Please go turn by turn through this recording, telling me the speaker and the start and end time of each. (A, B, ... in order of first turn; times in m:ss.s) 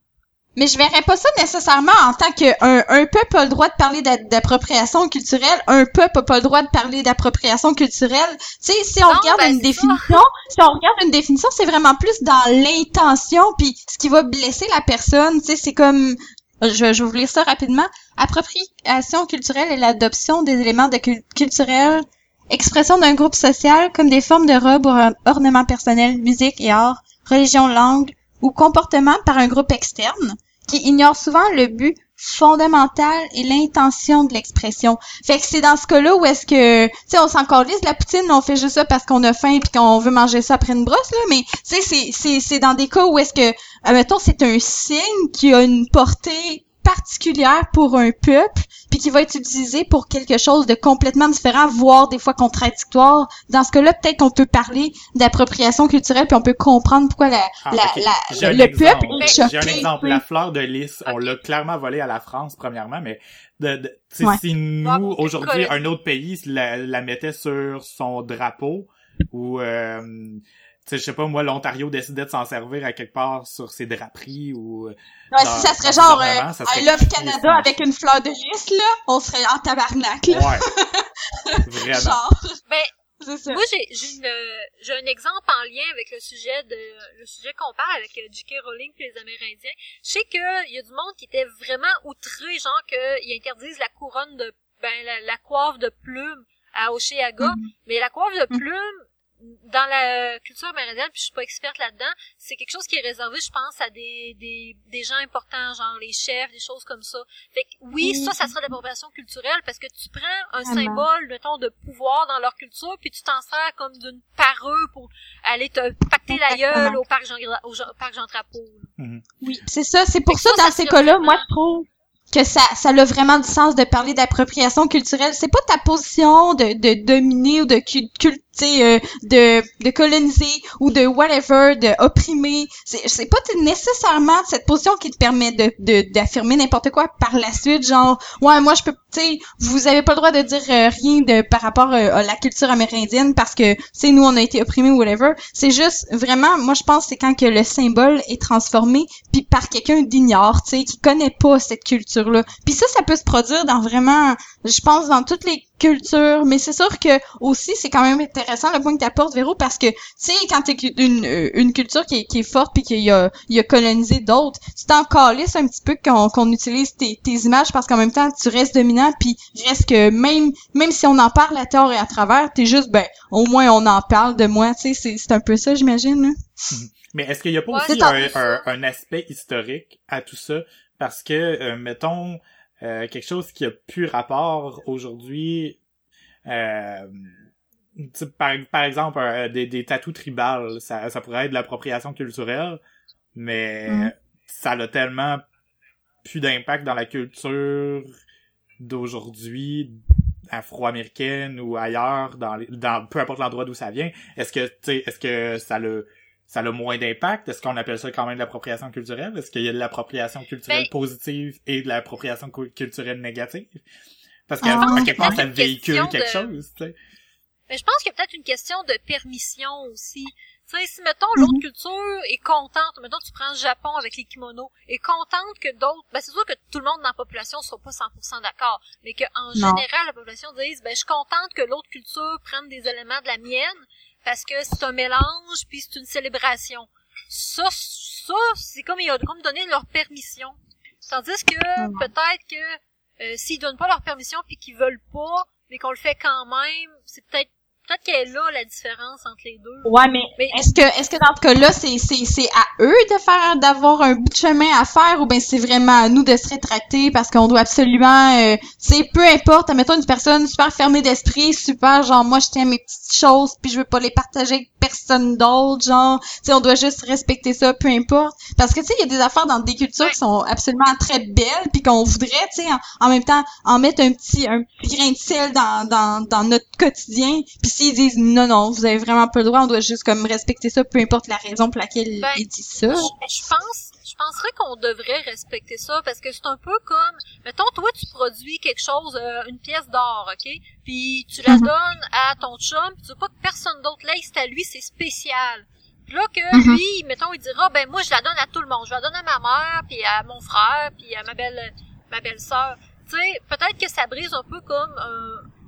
0:00.6-1:00.2 A
0:09.0-0:10.2 B
0:57.6-1:17.8 C
0:59.2-0:59.8 B
1:01.0-1:01.4 B
1:04.8-1:05.8 B
1:15.3-1:22.6 A
1:20.3-1:20.6 C
1:21.6-1:22.2 C
1:23.2-1:23.6 A
1:23.5-1:58.9 B
1:37.4-1:37.7 A
1:48.0-1:48.5 A
1:50.6-1:51.0 A
1:56.3-1:57.0 A
1:59.0-1:59.2 C
1:59.4-2:56.4 A
2:00.2-2:01.4 B
2:56.7-3:05.8 C
2:57.7-2:58.6 B
2:57.9-2:58.2 A
3:06.5-3:07.4 C
3:08.0-3:12.8 C
3:13.3-3:15.4 C
3:13.9-3:14.1 A
3:16.2-3:18.1 C
3:18.8-3:33.8 C
3:34.5-3:36.9 C
3:34.6-3:35.4 A
3:34.6-3:36.5 B
3:37.7-4:10.8 B
3:41.4-3:41.6 A
3:49.6-3:49.8 A
4:01.8-4:02.1 A
4:09.8-4:43.1 A
4:42.2-5:05.5 B
4:56.5-4:56.8 A